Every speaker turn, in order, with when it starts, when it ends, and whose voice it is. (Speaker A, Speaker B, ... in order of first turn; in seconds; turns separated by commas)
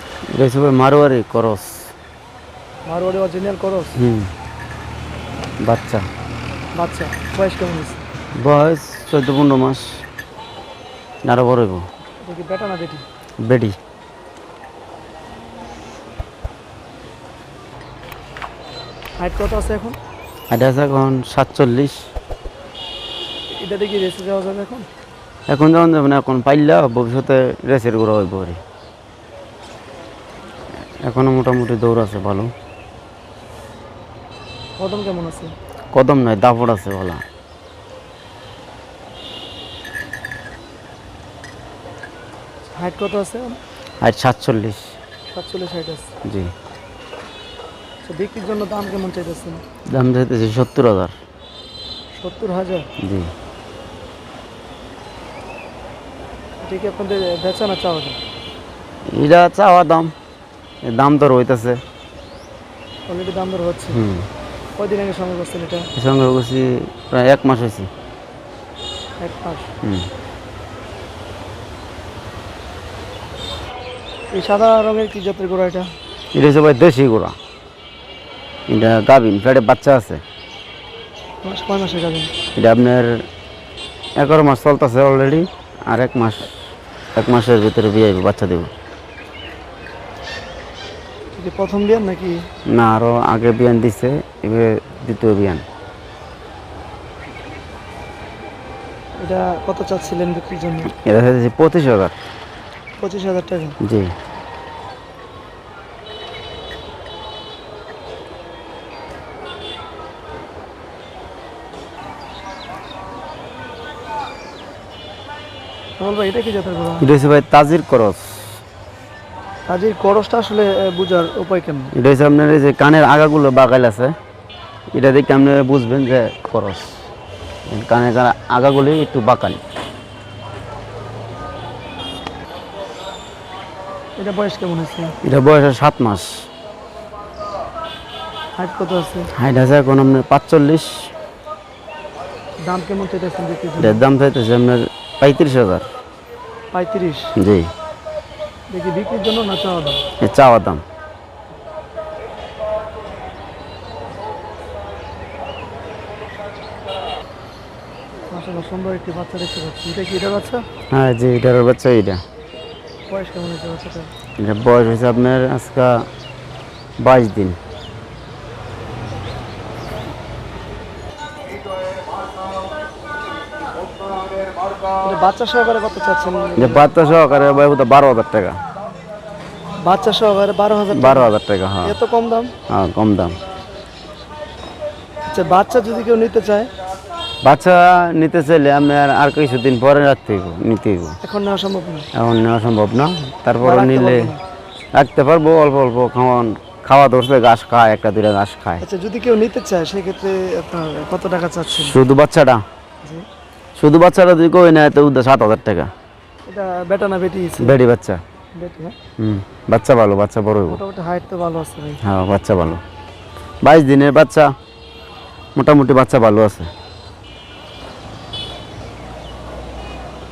Speaker A: 0.3-1.9, Speaker B: 2.9-4.0, Speaker A: 4.0-4.3, Speaker A: 5.6-6.0, Speaker B: 6.8-8.1, Speaker A: 8.4-10.0, Speaker A: 11.3-11.8, Speaker B: 12.2-13.1, Speaker A: 13.4-13.8, Speaker B: 19.2-20.0, Speaker A: 20.5-22.0, Speaker B: 23.5-24.9, Speaker A: 25.5-28.6, Speaker A: 31.0-32.5, Speaker B: 34.8-35.5, Speaker A: 35.9-37.2, Speaker B: 42.8-43.6, Speaker A: 44.0-45.0, Speaker B: 45.3-46.1, Speaker A: 46.2-46.5, Speaker B: 48.0-49.6, Speaker A: 49.9-51.1, Speaker B: 52.2-52.9, Speaker A: 53.0-53.3, Speaker B: 56.6-58.2, Speaker A: 59.1-60.1, Speaker A: 60.9-61.8, Speaker B: 63.1-64.0, Speaker A: 63.9-64.3, Speaker B: 64.8-65.9, Speaker A: 66.0-67.9, Speaker B: 69.2-69.7, Speaker A: 69.8-70.1, Speaker B: 74.3-75.9, Speaker A: 76.3-77.3, Speaker A: 78.7-80.2, Speaker B: 81.4-82.3, Speaker A: 82.6-83.2, Speaker A: 84.2-86.5, Speaker A: 87.2-88.7, Speaker B: 91.3-92.4, Speaker A: 92.7-95.6, Speaker B: 99.2-100.9, Speaker A: 101.0-102.2, Speaker B: 103.0-103.8, Speaker A: 103.8-104.1, Speaker B: 116.0-117.1, Speaker A: 117.0-118.6, Speaker B: 119.7-121.9, Speaker A: 122.0-124.1, Speaker A: 124.9-127.0, Speaker A: 127.7-129.6, Speaker B: 134.2-135.2, Speaker A: 135.2-136.5, Speaker B: 138.6-139.3, Speaker A: 139.4-141.1, Speaker B: 142.6-144.0, Speaker A: 143.8-145.8, Speaker B: 146.7-147.3, Speaker A: 147.4-147.7, Speaker B: 148.7-150.1, Speaker A: 150.2-150.8, Speaker B: 158.3-160.6, Speaker A: 160.9-162.2, Speaker B: 163.1-164.1, Speaker A: 164.4-166.1, Speaker A: 167.0-167.6, Speaker B: 175.0-176.9, Speaker A: 176.6-178.6, Speaker B: 179.8-181.3, Speaker A: 180.9-181.9, Speaker B: 181.8-182.5, Speaker A: 182.7-183.4, Speaker B: 185.3-186.7, Speaker A: 187.4-191.2, Speaker B: 191.2-192.1, Speaker A: 192.1-194.3, Speaker B: 193.6-194.4, Speaker A: 194.9-198.8, Speaker B: 198.8-202.0, Speaker A: 201.8-202.6, Speaker A: 203.8-205.9, Speaker B: 206.5-207.8, Speaker A: 207.6-208.2, Speaker B: 208.6-208.9, Speaker A: 209.2-210.8, Speaker B: 210.7-212.0, Speaker A: 212.0-212.8, Speaker A: 213.6-214.5, Speaker A: 215.6-216.7